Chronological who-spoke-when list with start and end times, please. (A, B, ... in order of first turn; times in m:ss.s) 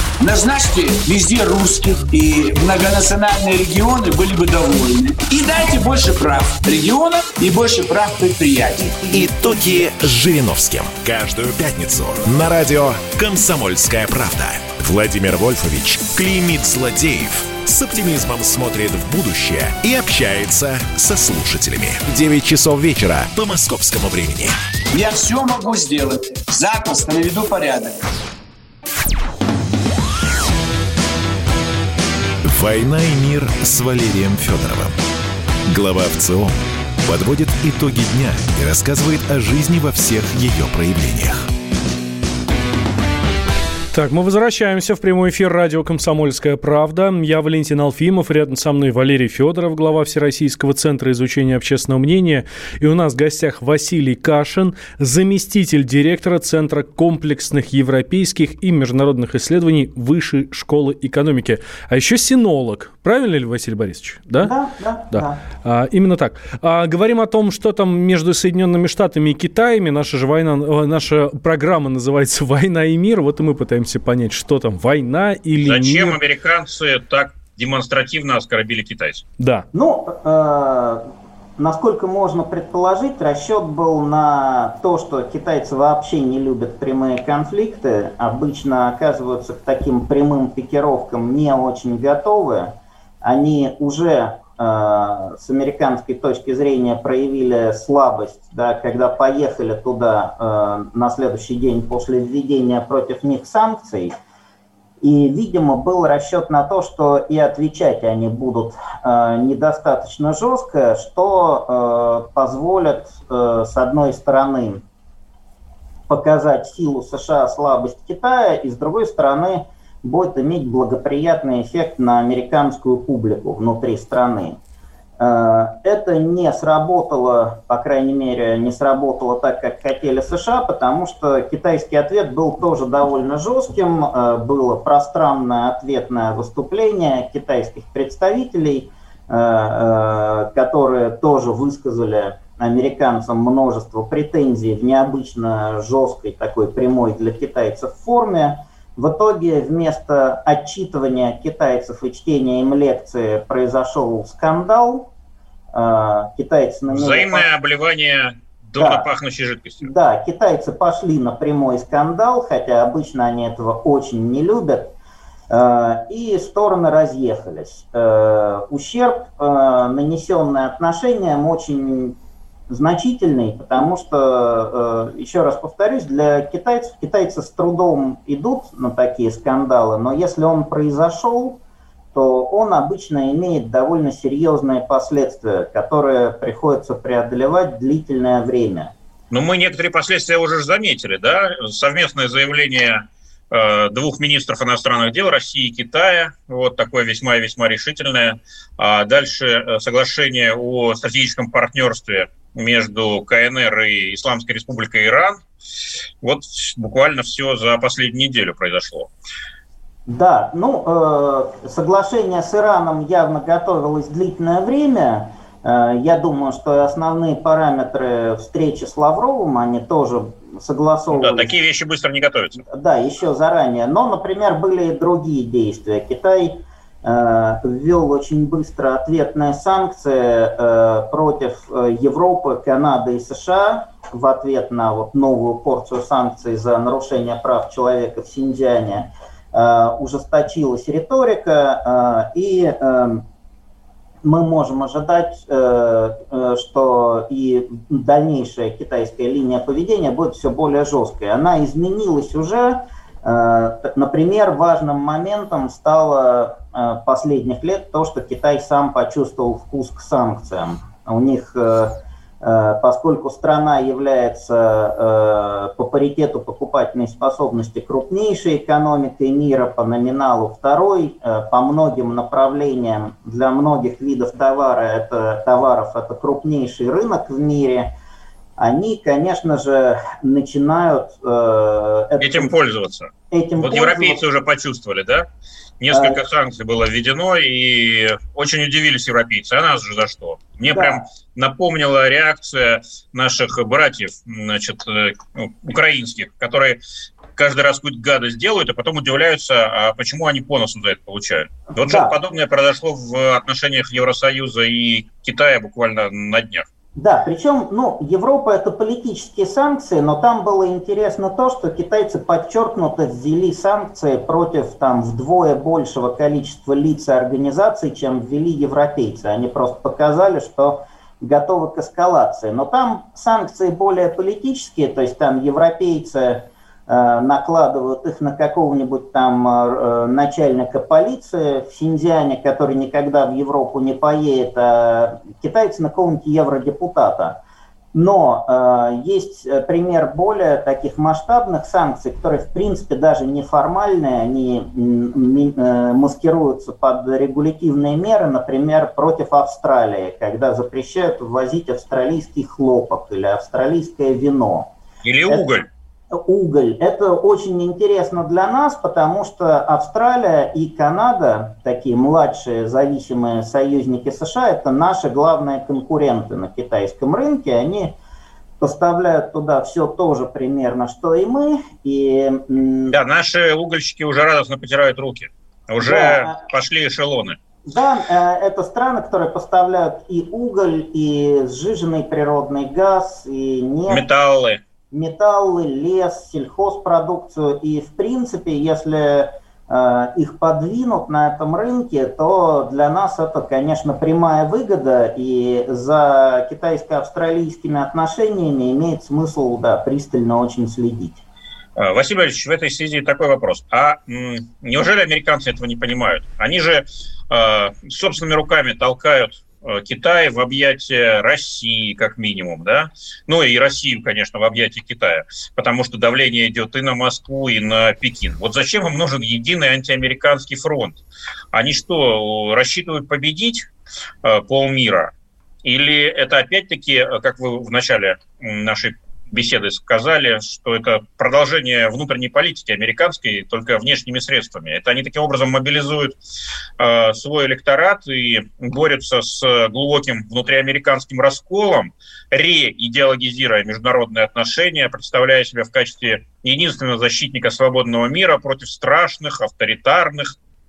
0:00.2-0:09.1 A
0:09.1-0:24.6 B
0:24.9-0:28.0 A
0:32.4-0:35.0 B
0:35.7-0:36.5 B
0:37.0-0:41.5 B
0:43.9-1:04.5 C
1:04.4-1:05.4 D
1:05.1-1:16.2 C
1:15.6-1:19.2 E
1:19.4-1:19.6 C
1:19.7-1:21.1 D
1:21.6-1:44.1 D
1:45.0-1:54.8 D
1:56.1-2:04.6 D
2:05.2-2:35.1 D
2:35.7-2:37.5 D
2:36.9-2:39.9 E
2:38.8-2:39.1 D
2:39.8-2:44.9 D
2:45.5-2:52.2 D
2:52.7-3:01.6 D
3:02.1-3:08.9 D
3:09.3-3:13.0 E
3:13.5-3:25.4 E
3:26.2-3:29.1 E
3:30.1-3:41.5 D
3:41.1-3:42.6 E
3:42.7-4:03.2 D
4:04.2-4:37.9 D
4:38.6-4:42.5 D
4:42.2-4:45.3 E
4:43.3-4:44.2 D
4:45.8-4:56.8 E
4:45.9-4:46.2 D
4:50.7-4:51.0 D
4:57.4-5:06.7 E
5:01.8-5:02.2 D
5:07.0-5:37.4 D
5:37.9-5:54.7 D
5:55.0-5:55.6 E
5:56.1-6:07.9 D
6:08.6-6:13.0 D
6:12.9-6:17.4 E
6:15.8-6:16.4 D
6:17.7-6:24.0 D
6:23.9-6:24.6 E
6:24.9-6:41.2 D
6:41.8-7:01.0 E
7:01.5-7:03.7 E
7:04.2-7:05.1 E
7:05.6-7:16.2 E
7:16.8-7:30.3 E